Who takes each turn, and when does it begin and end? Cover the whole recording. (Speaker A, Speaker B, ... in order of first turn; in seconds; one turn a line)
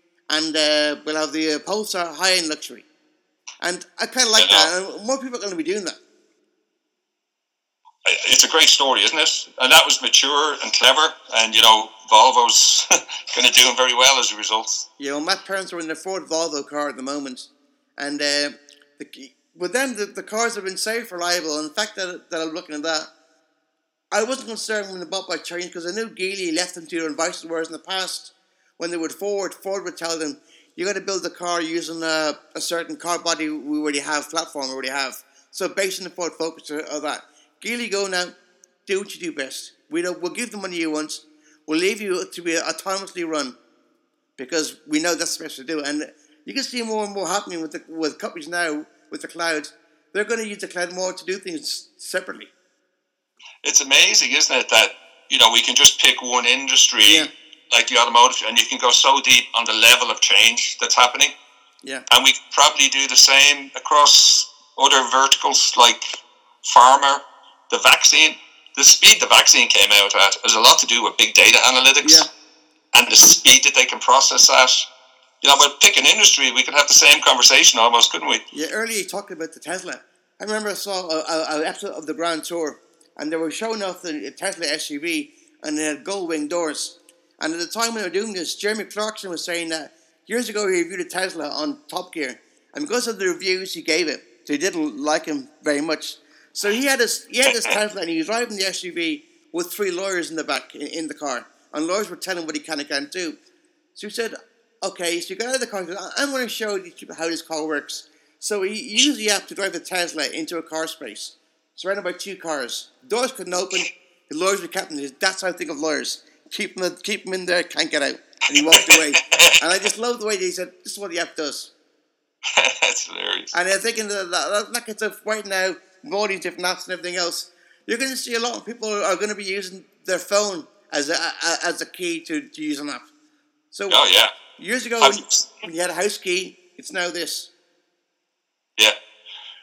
Speaker A: 0.3-2.9
Speaker A: 3.6-6.0
Speaker B: 4.4-4.7
Speaker B: 8.0-14.8
Speaker A: 15.0-23.1
Speaker A: 24.1-43.6
Speaker A: 44.4-52.5
Speaker B: 53.6-61.3
Speaker A: 57.0-57.3
Speaker B: 62.1-66.0
Speaker B: 66.6-72.3
Speaker A: 72.0-72.3
Speaker B: 72.9-74.9
Speaker B: 75.4-78.4
Speaker A: 78.5-103.4
Speaker A: 104.0-121.7
Speaker B: 118.5-119.6
Speaker B: 122.5-123.5
Speaker A: 123.5-133.1
Speaker A: 133.7-134.0
Speaker B: 133.9-134.3
Speaker A: 134.6-137.5
Speaker B: 135.0-135.5